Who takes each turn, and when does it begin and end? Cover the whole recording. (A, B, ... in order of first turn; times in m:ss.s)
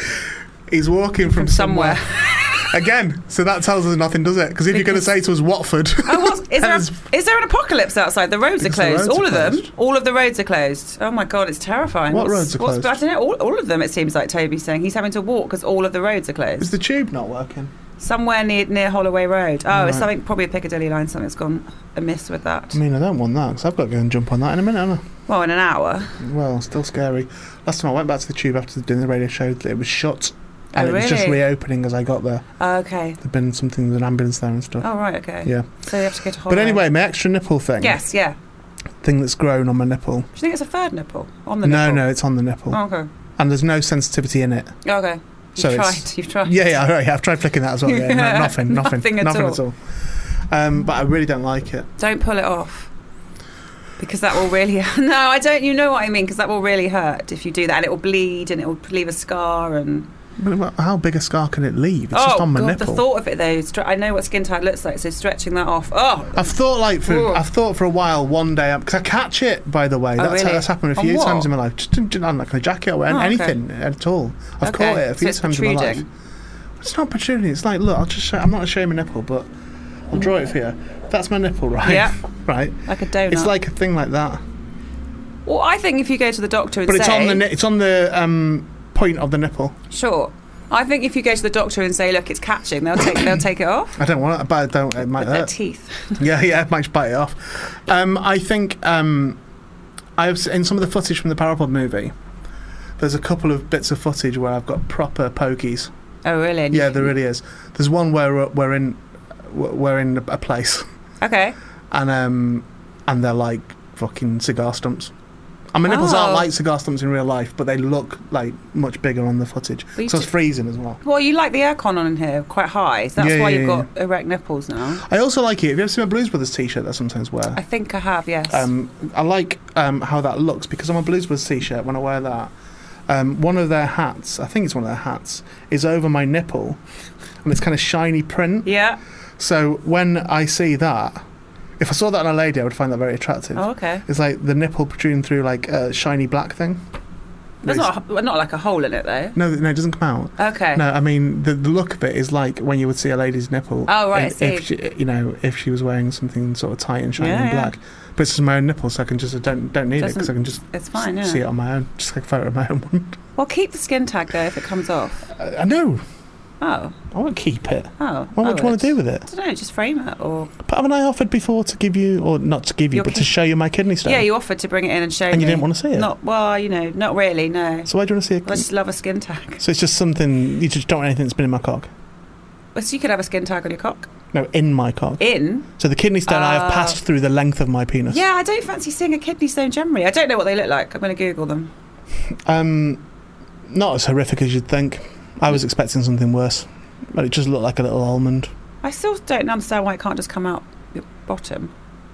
0:00.7-0:07.0 A
0:01.3-0:02.6 B
0:04.7-0:05.0 B
0:06.1-0:16.7 B
0:08.6-0:09.7 A
0:12.1-0:13.0 A
0:16.6-0:17.7 A
0:18.0-0:22.8 B
0:19.7-0:20.1 A
0:22.7-0:25.0 A
0:25.3-0:26.2 B
0:26.2-0:32.5 A
0:30.7-0:31.4 B
0:32.6-0:33.2 B
0:33.2-0:34.9 A
0:34.8-0:36.8 B
0:35.4-0:35.7 A
0:36.5-0:38.0 A
0:37.8-0:38.4 B
0:39.0-0:40.3 A
0:40.4-0:42.1 B
0:41.6-0:42.8 A
0:42.7-0:43.1 B
0:43.4-0:44.8 A
0:44.8-0:46.8 B
0:45.6-0:49.8 A
0:47.8-0:49.6 B
0:50.5-0:51.9 A
0:52.0-0:52.9 B
0:54.0-1:00.1 B
1:00.4-1:03.0 A
1:02.1-1:07.4 B
1:06.4-1:16.1 A
1:10.2-1:11.5 B
1:13.1-1:13.6 B
1:14.6-1:16.1 B
1:16.8-1:19.5 A
1:20.1-1:24.4 A
1:21.8-1:22.1 B
1:22.8-1:23.5 B
1:25.5-1:27.4 B
1:26.9-1:29.8 A
1:29.9-1:33.9 B
1:34.0-1:35.5 A
1:35.2-1:36.2 B
1:36.2-1:39.4 A
1:40.2-1:42.1 A
1:43.0-1:45.9 A
1:46.2-1:47.1 B
1:46.7-1:50.9 A
1:51.2-1:51.6 B
1:51.9-1:55.1 A
1:55.7-2:01.0 A
1:55.9-1:56.5 B
2:00.0-2:00.3 B
2:01.0-2:05.0 B
2:03.2-2:03.9 A
2:05.0-2:07.6 A
2:07.6-2:08.7 B
2:08.5-2:12.5 A
2:13.1-2:16.8 A
2:17.4-2:18.7 A
2:18.6-2:19.0 B
2:19.4-2:21.2 A
2:21.8-2:26.8 A
2:23.6-2:24.0 B
2:27.6-2:29.4 B
2:27.6-2:27.9 A
2:29.4-2:43.2 A
2:30.4-2:30.8 B
2:33.9-2:34.7 B
2:37.2-2:37.7 B
2:40.0-2:41.4 B
2:43.4-2:45.3 B
2:45.3-2:46.0 A
2:46.6-2:47.0 B
2:47.1-2:49.3 A
2:48.0-2:50.5 B
2:50.6-2:54.3 A
2:52.9-2:53.3 B
2:54.0-2:57.9 B
2:55.3-2:56.1 A
2:57.9-2:58.7 A
2:58.4-2:59.6 B
2:59.6-3:01.9 A
3:02.8-3:04.1 B
3:04.3-3:08.2 A
3:05.2-3:05.7 B
3:06.3-3:07.0 B
3:08.1-3:11.7 B
3:12.5-3:13.0 A
3:13.7-3:18.5 A
3:18.8-3:21.7 B